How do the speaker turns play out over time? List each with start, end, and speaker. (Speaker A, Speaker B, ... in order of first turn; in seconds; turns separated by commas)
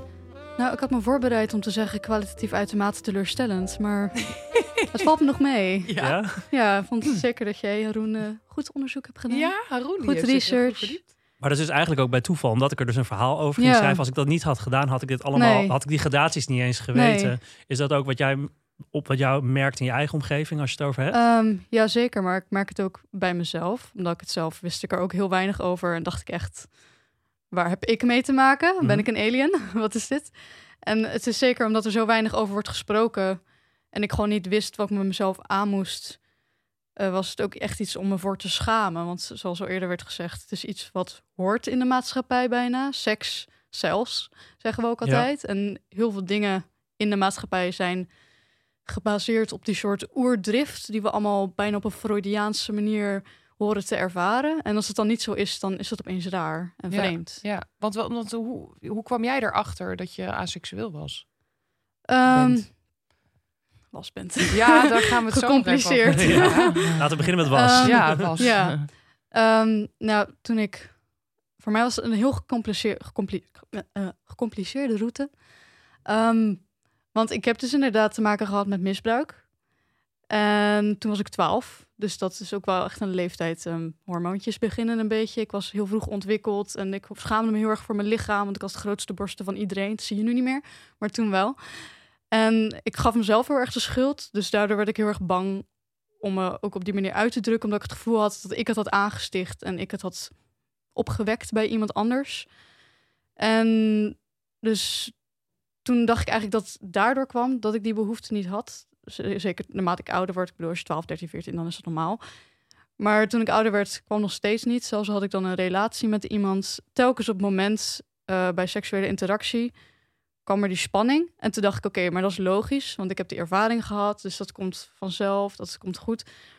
Speaker A: 0.6-11.0, Speaker B: 4.8-5.0, Speaker B: 5.8-6.4, Speaker C: 6.0-6.5, Speaker B: 9.3-11.1, Speaker C: 11.4-21.2, Speaker A: 13.6-14.0, Speaker A: 15.3-15.7, Speaker A: 16.9-17.3, Speaker A: 21.1-26.8, Speaker A: 27.5-36.3, Speaker C: 28.8-29.1, Speaker A: 37.0-48.1, Speaker A: 48.8-57.4, Speaker B: 56.9-61.4, Speaker A: 62.1-62.8, Speaker B: 62.3-62.6, Speaker A: 63.9-75.5, Speaker B: 64.5-68.9, Speaker C: 66.1-68.3, Speaker A: 76.0-79.5, Speaker A: 80.3-102.6, Speaker A: 103.4-105.3, Speaker A: 105.8-112.2, Speaker A: 113.0-119.8, Speaker A: 120.4-126.3